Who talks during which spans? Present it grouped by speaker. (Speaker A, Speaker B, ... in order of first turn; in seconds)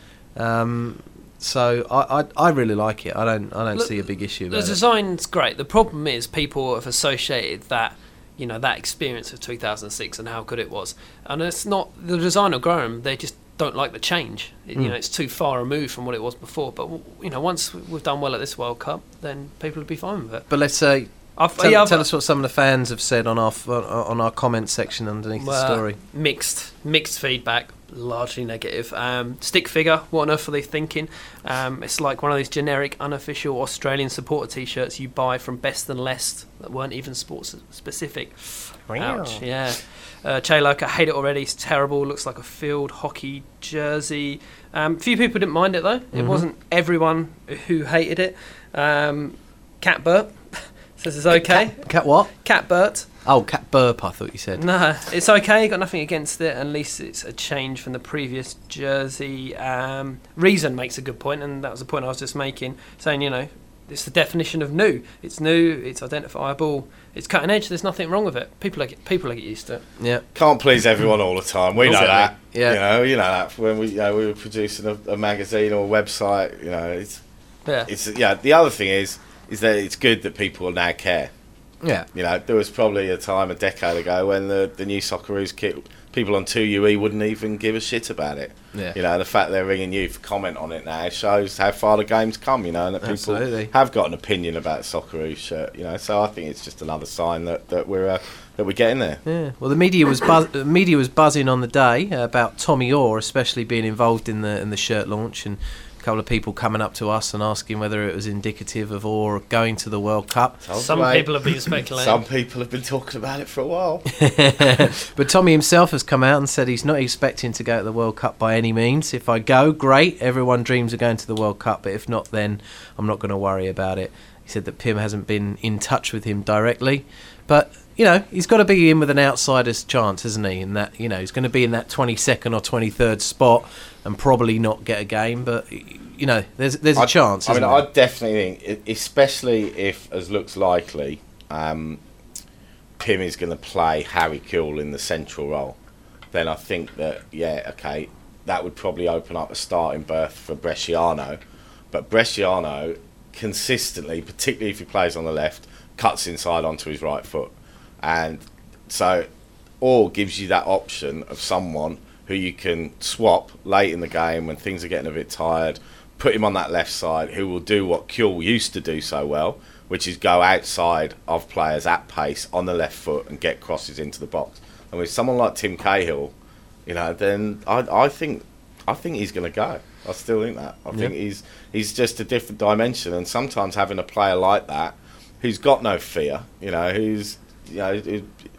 Speaker A: 0.4-4.8, 20.5-26.0, 38.9-39.4, 46.1-46.5, 51.3-52.4, 53.2-54.6, 70.0-70.2, 71.9-72.8, 93.0-93.7, 99.3-110.6, 114.2-137.9
Speaker B: 3.7-20.5, 21.4-22.1, 25.4-53.1, 54.6-69.8, 71.8-72.3, 110.8-112.2
Speaker C: 70.3-77.2, 77.9-81.3, 82.1-99.2, 110.6-114.9, 136.9-142.0, 143.0-145.8, 146.3-151.4, 151.9-159.3, 159.8-176.3, 176.9-188.3